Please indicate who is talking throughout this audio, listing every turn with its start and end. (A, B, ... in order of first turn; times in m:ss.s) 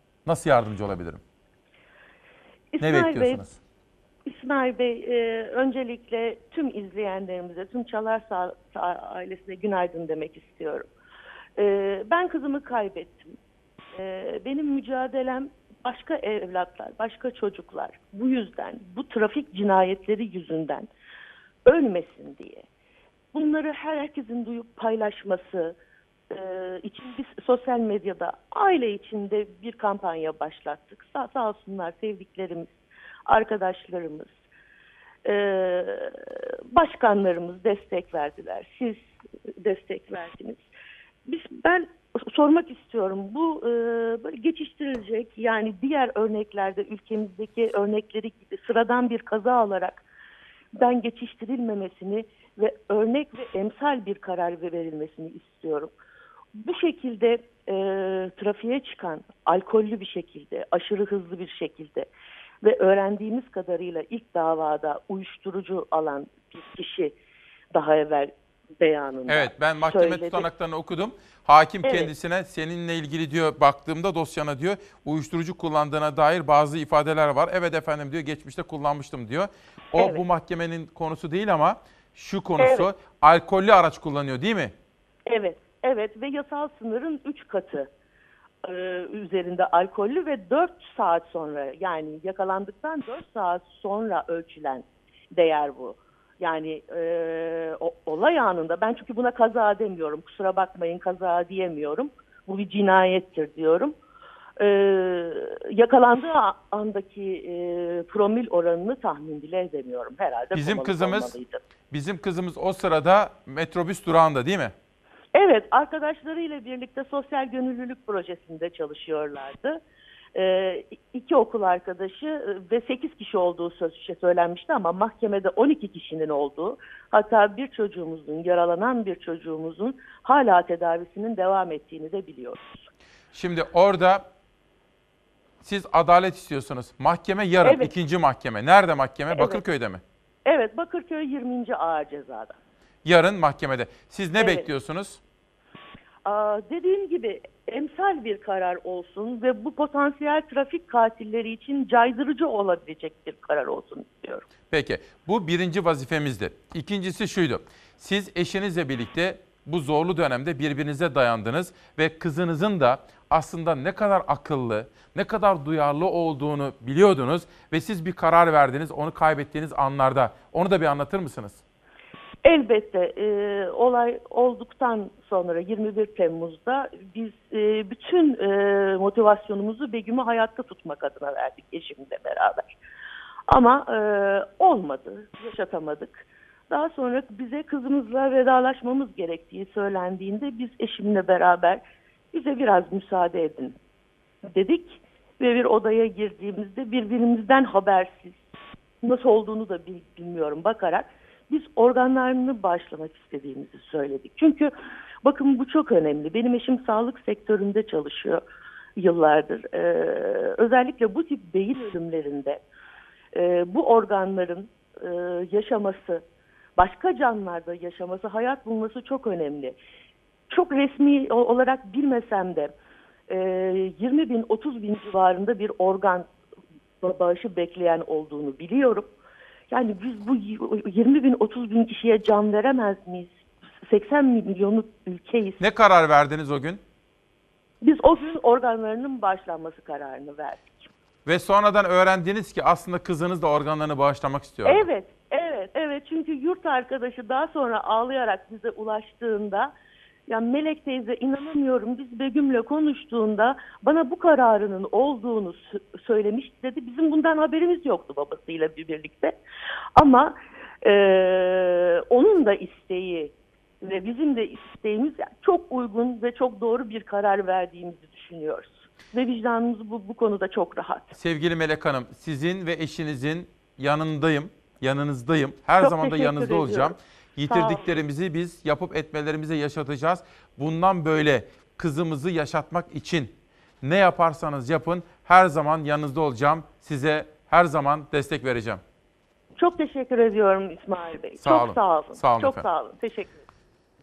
0:00.2-0:01.2 A
0:02.7-0:03.4 B
0:02.8-0:03.5 A
0:04.2-0:10.9 B
0:11.6-0:13.3 B
0:13.9-0:20.9 B
0:21.7-0:22.6 B
0:23.3-0:25.7 B
0:26.3-0:32.7 B
0:33.3-0:34.4 B
0:35.2-0:36.2 B
0:36.7-0:39.0 B
0:39.6-0:40.6 B
0:41.3-0:50.0 B
0:50.8-0:55.9 B
0:56.6-1:02.1 B
1:02.6-1:07.1 B
1:07.7-1:10.5 B
1:09.3-1:24.7 A
1:11.8-1:12.1 B
1:20.0-1:20.2 B
1:22.6-1:22.9 B
1:25.3-1:27.9 B
1:28.6-1:44.0 B
1:44.6-1:51.6 B
1:50.5-1:51.4 A
1:51.9-1:54.7 A
1:55.3-1:59.8 B
2:00.3-2:12.7 B
2:13.3-2:14.3 A
2:15.6-2:20.0 A
2:17.6-2:17.9 B
2:19.3-2:19.6 B
2:20.4-2:22.6 B
2:23.0-2:25.2 A
2:24.4-2:24.7 B
2:26.2-2:34.4 B
2:34.7-2:51.6 A
2:52.4-3:02.7 B
3:03.5-3:11.8 B
3:12.3-3:13.8 B
3:14.5-3:18.4 B
3:19.0-3:24.7 B
3:25.2-3:28.4 B
3:29.0-3:32.6 B
3:33.3-3:36.2 B
3:36.8-3:39.8 B
3:40.5-3:42.7 B
3:43.3-3:46.3 B
3:47.0-3:49.1 B
3:49.7-3:55.6 B
3:55.6-3:56.8 A
3:57.8-4:00.9 B
4:01.2-4:04.9 A
4:04.6-4:09.7 B
4:10.3-4:19.4 B
4:20.0-4:23.3 B
4:23.8-4:31.1 B
4:31.2-4:48.8 A
4:35.8-4:37.0 B
4:37.5-4:37.9 B
4:49.6-4:53.3 B
4:51.4-4:52.6 A